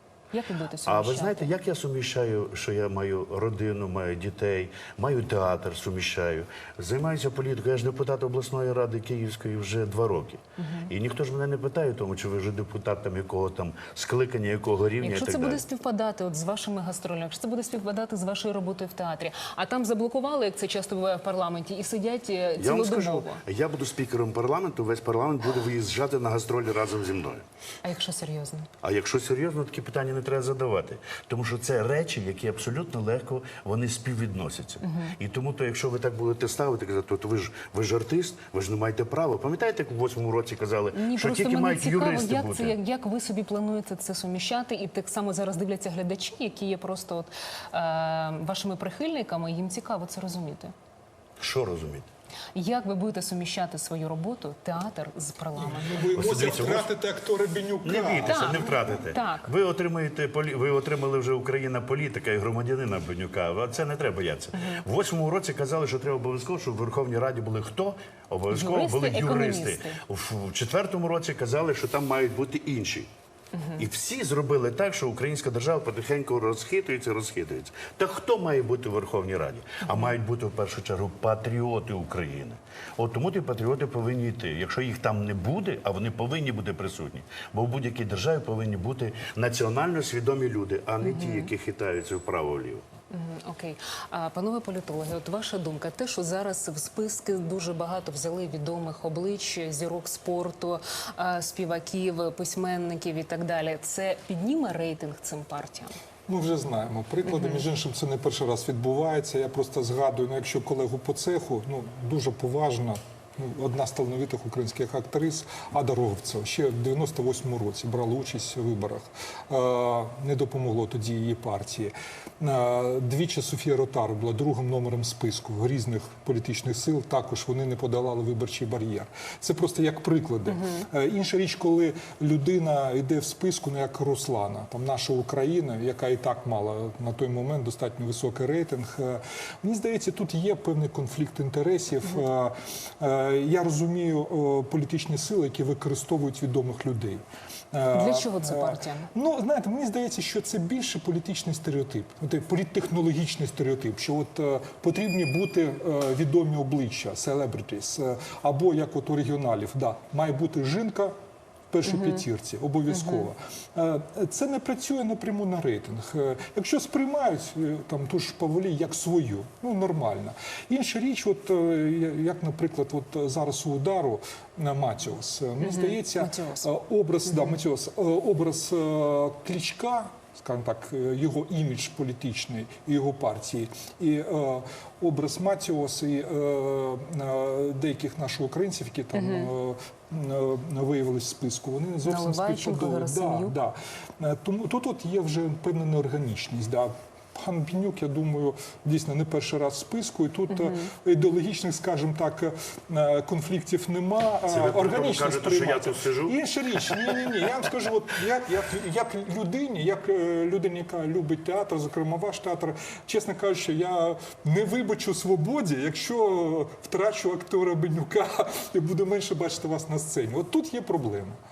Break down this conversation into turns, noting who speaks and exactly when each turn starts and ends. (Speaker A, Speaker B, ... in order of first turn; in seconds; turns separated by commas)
Speaker A: 0.3-1.5, Speaker B: 0.8-15.6, Speaker A: 10.6-10.9, Speaker A: 15.0-23.4, Speaker B: 22.6-27.4, Speaker A: 27.8-28.7, Speaker B: 28.8-42.8, Speaker A: 34.8-35.1, Speaker A: 40.9-50.7, Speaker B: 51.4-52.1, Speaker A: 52.5-56.0, Speaker C: 55.5-58.6, Speaker B: 56.1-56.9, Speaker B: 57.8-73.1, Speaker A: 58.2-59.5, Speaker A: 68.5-70.0, Speaker A: 73.5-73.8, Speaker B: 73.8-92.8, Speaker A: 91.0-91.5, Speaker A: 93.1-105.9, Speaker C: 106.3-161.1, Speaker A: 107.3-107.6, Speaker A: 130.5-130.8, Speaker A: 147.9-149.1, Speaker C: 161.7-221.4, Speaker A: 161.8-162.2, Speaker A: 162.9-163.3, Speaker A: 175.6-176.7, Speaker A: 189.1-189.5, Speaker A: 192.0-193.5, Speaker A: 200.5-200.9, Speaker B: 204.5-206.3